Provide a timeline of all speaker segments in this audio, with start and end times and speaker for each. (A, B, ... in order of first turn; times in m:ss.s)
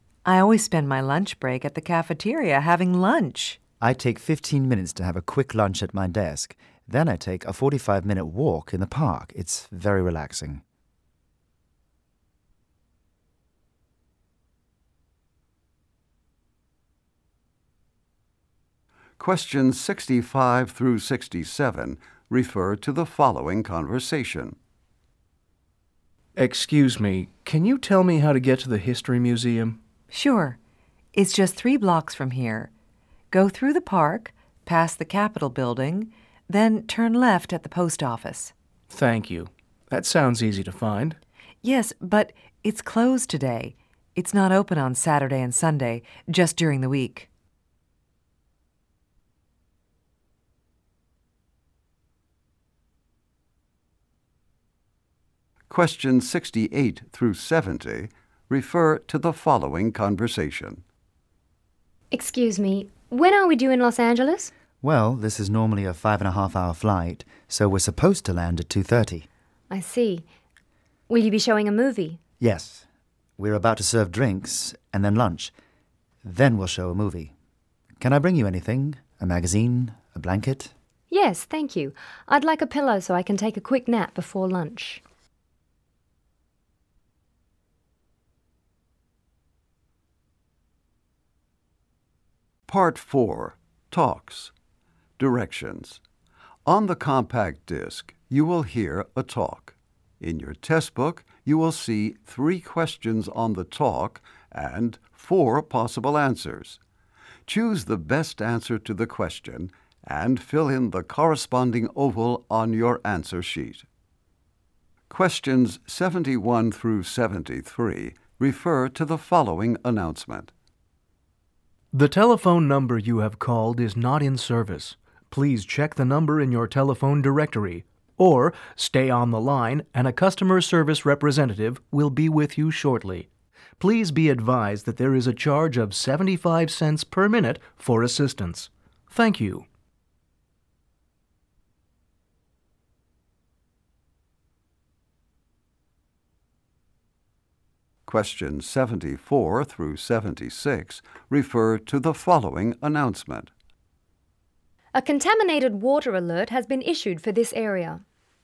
0:00.2-0:03.6 A
0:03.8-0:10.6 B
0:19.2-0:24.6 C
0:26.4-0:29.8 D
0:30.1-0:30.6 A
0:31.1-0:32.7 A
0:33.3-0:38.5 A
0:38.9-0:41.2 D
0:41.6-0:47.3 A
0:55.7-1:00.8 C
1:02.1-1:04.5 E
1:04.8-1:09.2 B
1:09.7-1:10.2 E
1:11.1-1:12.2 E
1:12.4-1:12.8 B
1:13.4-1:15.5 B
1:16.2-1:17.3 B
1:18.0-1:20.7 B
1:21.1-1:25.0 E
1:32.7-1:34.5 C
1:35.2-1:36.0 C
1:36.6-1:46.8 C
1:47.5-1:53.8 C
1:55.1-2:00.5 C
2:01.9-2:13.3 D
2:13.8-2:19.6 D
2:28.1-2:33.5 C
2:34.9-2:38.0 E